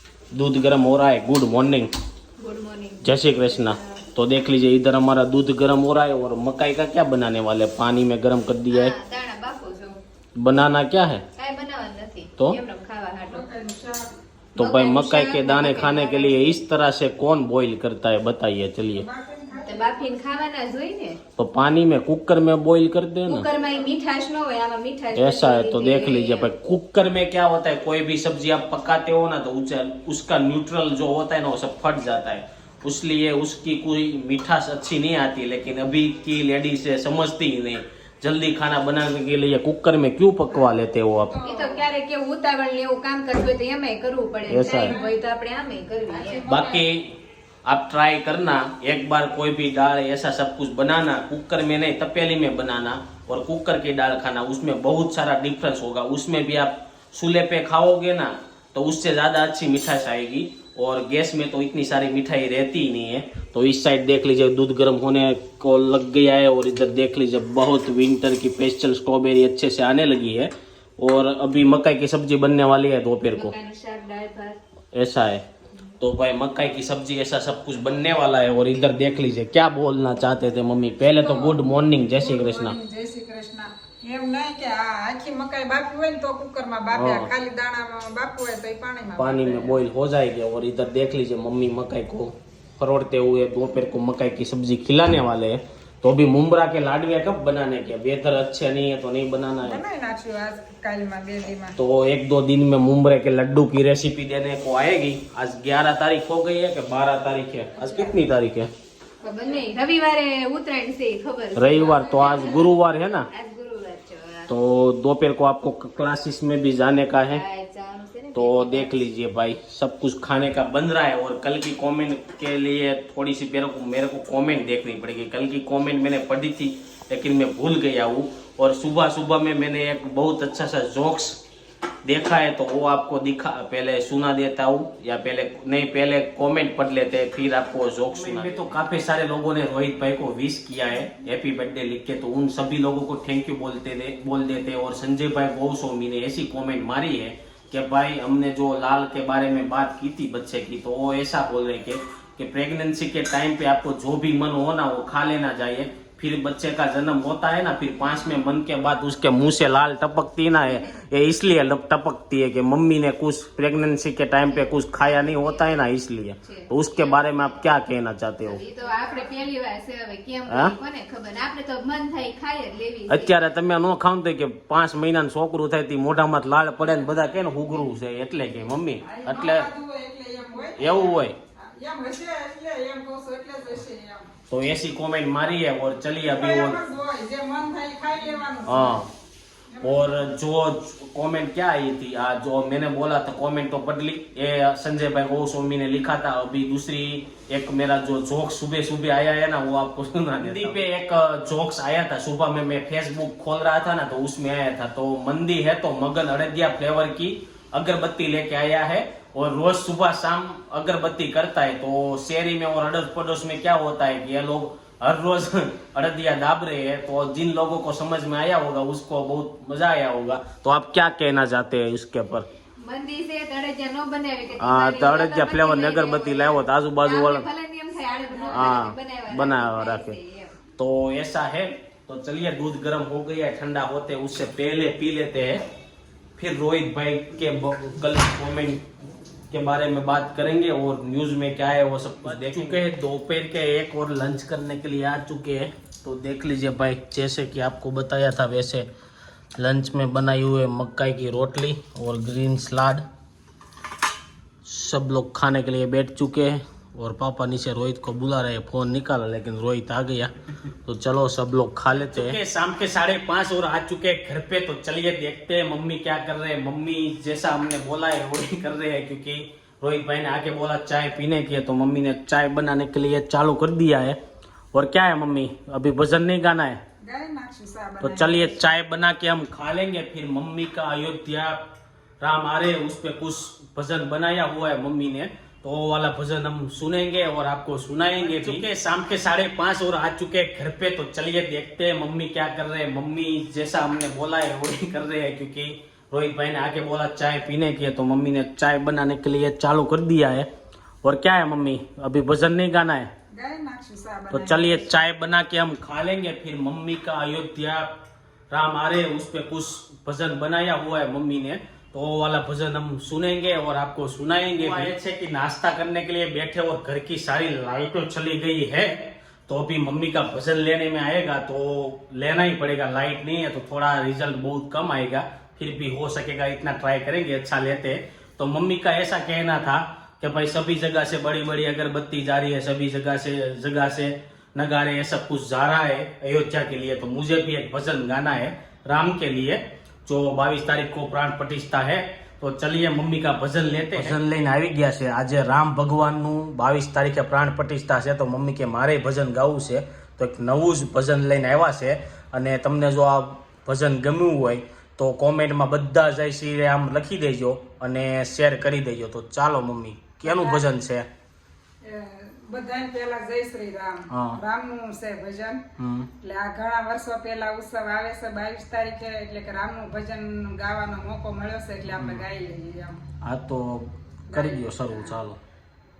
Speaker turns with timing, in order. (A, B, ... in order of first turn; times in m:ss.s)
0:00.3-0:01.9 A
0:02.4-0:04.0 B
0:03.0-0:08.9 A
0:08.7-0:10.0 B
0:10.4-0:11.2 A
0:11.3-0:13.4 B
0:13.2-0:14.0 C
0:14.6-0:19.1 A
0:14.6-0:16.6 B
0:18.9-0:20.4 C
0:19.6-0:21.2 B
0:21.4-0:23.5 A
0:23.2-0:26.5 B
0:25.1-0:41.4 A
0:41.3-0:41.8 C
0:41.4-0:46.5 B
0:44.5-0:45.0 A
0:44.7-0:45.2 C
0:46.1-0:46.8 C
0:46.5-1:13.5 A
1:13.3-1:14.6 B
1:14.9-1:15.5 A
1:16.0-1:22.7 A
1:21.1-1:29.8 C
1:26.9-1:27.3 A
1:29.2-1:39.8 A
1:39.6-1:41.8 C
1:41.8-1:48.7 A
1:47.7-1:48.2 C
1:49.2-1:54.6 B
1:49.2-1:49.6 C
1:51.6-1:53.3 A
1:54.5-1:57.4 A
1:57.2-1:59.1 B
1:58.3-2:11.4 A
2:12.0-2:48.6 A
2:44.4-2:45.9 B
2:46.4-2:47.8 B
2:48.4-2:53.4 B
2:48.8-2:49.3 C
2:50.5-2:50.8 A
2:53.1-2:59.7 A
2:59.0-3:04.3 C
3:00.8-3:01.4 A
3:04.5-3:06.8 A
3:06.2-3:09.1 C
3:08.6-3:09.1 A
3:09.7-3:10.3 C
3:09.8-3:42.5 A
3:42.8-3:50.6 B
3:44.6-3:47.5 A
3:48.0-3:48.8 C
3:48.5-3:50.2 A
3:50.8-3:55.6 A
3:56.4-3:58.8 A
3:59.5-4:08.9 A
4:09.6-4:13.0 A
4:14.6-4:20.3 A
4:20.8-4:34.2 A
4:34.7-4:36.8 A
4:37.0-4:38.6 C
4:38.0-4:41.6 A
4:42.2-5:00.5 A
5:01.0-5:03.1 A
5:03.4-5:04.9 C
5:04.3-5:07.9 A
5:08.5-6:01.1 A
6:00.2-6:00.6 C
6:01.8-6:05.6 C
6:04.1-6:04.4 A
6:05.8-6:06.1 A
6:06.2-6:13.0 C
6:12.0-6:12.2 A
6:13.2-6:15.4 A
6:14.3-6:15.2 C